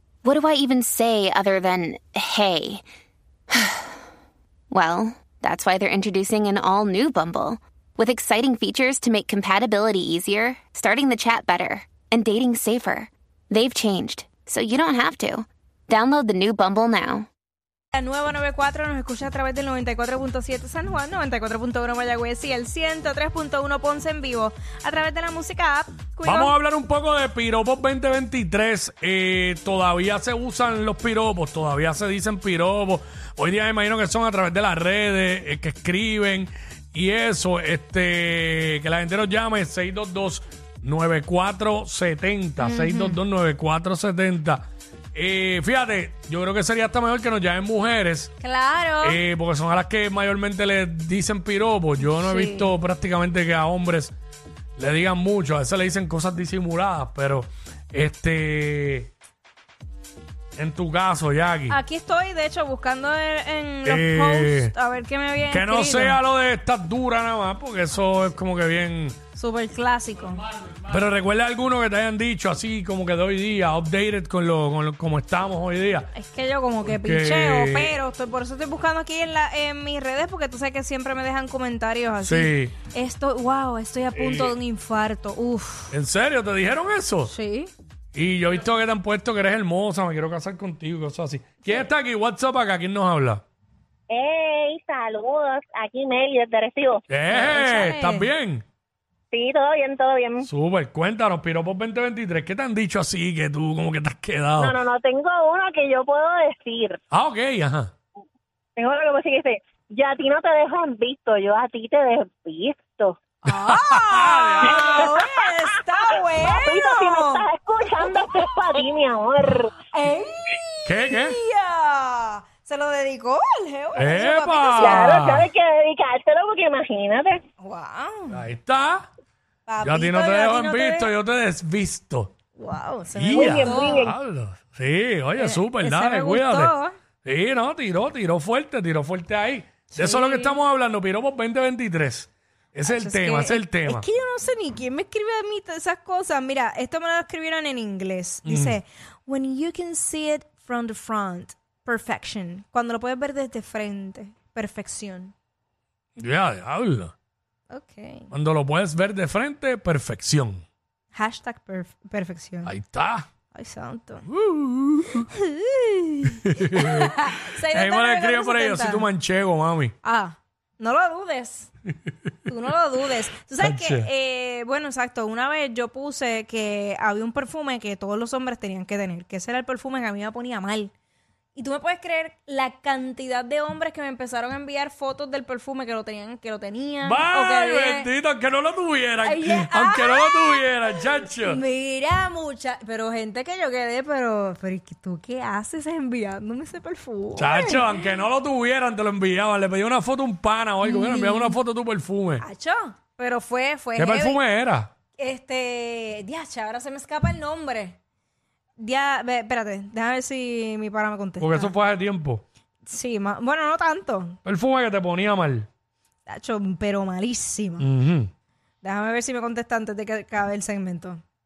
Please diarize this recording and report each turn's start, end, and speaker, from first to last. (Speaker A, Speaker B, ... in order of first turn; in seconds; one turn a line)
Speaker A: 0.2-2.8
Speaker A: 3.5-3.9
Speaker A: 4.7-17.3
Speaker B: 17.9-26.6
Speaker C: 26.2-48.3
Speaker B: 42.6-43.2
Speaker B: 48.4-49.2
Speaker C: 49.0-54.1
Speaker B: 52.0-52.7
Speaker C: 54.8-59.1
Speaker C: 60.6-61.8
Speaker B: 61.7-66.2
Speaker C: 63.9-64.7
Speaker C: 65.5-69.2
Speaker B: 69.3-70.4
Speaker C: 70.9-76.1
Speaker B: 76.1-86.0
Speaker C: 76.8-78.0
Speaker C: 82.2-82.8
Speaker C: 84.1-84.6
Speaker C: 85.9-87.3
Speaker B: 87.2-87.7
Speaker C: 88.1-93.4
Speaker D: 94.1-97.0
Speaker C: 97.1-98.6
Speaker B: 97.3-98.3
Speaker D: 99.3-100.5
Speaker C: 100.4-104.8
Speaker D: 104.6-107.0
Speaker C: 107.1-107.9
Speaker D: 108.8-113.2
Speaker B: 113.5-117.4
Speaker C: 113.5-115.1
Speaker D: 114.7-115.1
Speaker D: 116.5-119.8
Speaker B: 119.9-125.2
Speaker C: 120.9-121.4
Speaker C: 124.0-125.5
Speaker D: 124.8-127.4
Speaker B: 127.6-128.4
Speaker C: 128.3-129.1
Speaker B: 129.7-131.1
Speaker C: 129.8-132.3
Speaker B: 132.6-134.0
Speaker C: 133.1-144.1
Speaker D: 133.3-134.2
Speaker B: 135.3-136.9
Speaker B: 139.9-140.6
Speaker B: 142.9-155.3
Speaker C: 148.4-148.8
Speaker C: 156.2-157.1
Speaker B: 157.7-158.3
Speaker C: 158.3-160.6
Speaker B: 161.1-162.7
Speaker C: 162.7-163.3
Speaker B: 163.5-164.3
Speaker C: 164.3-165.2
Speaker B: 165.2-169.1
Speaker C: 166.4-169.9
Speaker B: 170.0-171.7
Speaker B: 172.5-180.9
Speaker C: 173.6-174.1
Speaker B: 181.6-188.1
Speaker C: 187.0-191.6
Speaker B: 189.2-198.0
Speaker C: 197.4-202.4
Speaker B: 200.8-201.6
Speaker B: 202.4-204.4
Speaker C: 204.0-204.9
Speaker B: 205.2-208.0
Speaker B: 208.8-211.7
Speaker C: 211.4-212.4
Speaker B: 212.8-214.4
Speaker C: 214.4-215.7
Speaker B: 216.3-217.9
Speaker C: 217.8-218.3
Speaker B: 218.8-221.2